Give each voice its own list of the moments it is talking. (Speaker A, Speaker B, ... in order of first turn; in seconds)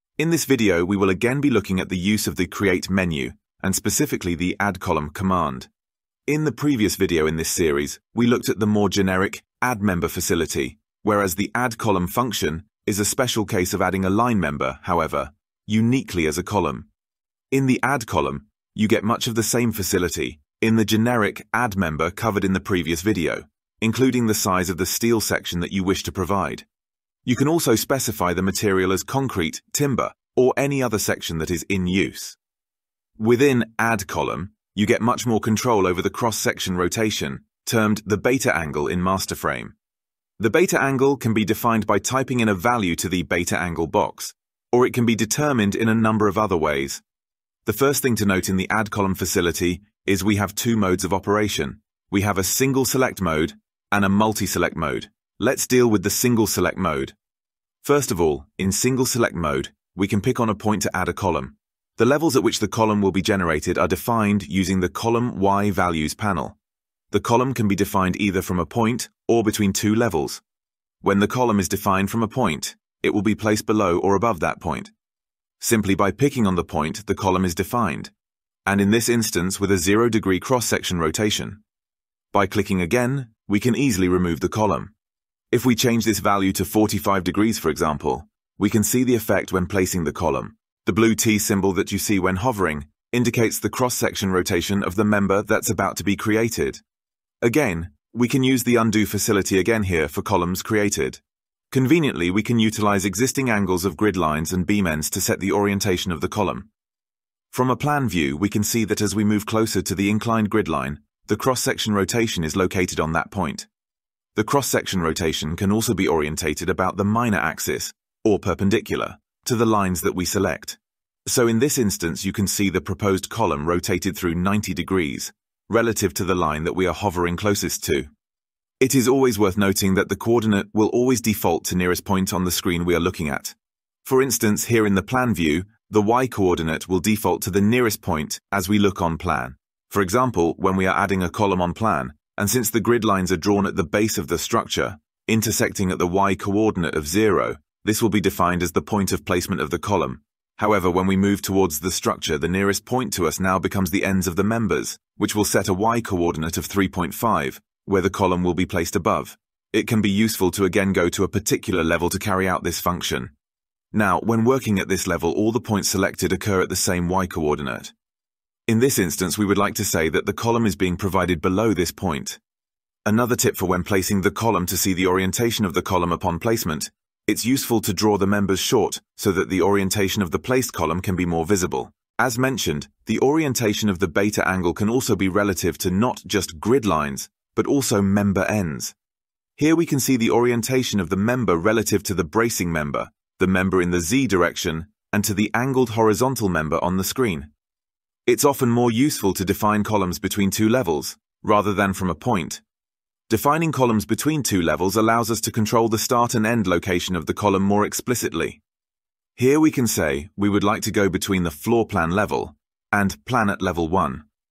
Speaker A: 0.2-5.7, 6.3-16.9, 17.5-26.6, 27.2-32.4, 33.2-39.8, 40.4-47.0, 47.6-57.1, 57.8-66.6, 67.1-70.4, 71.0-74.9, 75.6-78.1, 78.7-81.6, 82.3-84.9, 85.5-96.8, 97.4-106.7, 107.5-113.7, 114.3-128.1, 128.8-163.3, 163.9-167.9, 168.7-172.4, 173.0-188.9, 189.6-197.5, 198.2-202.6, 203.3-208.6, 209.4-214.2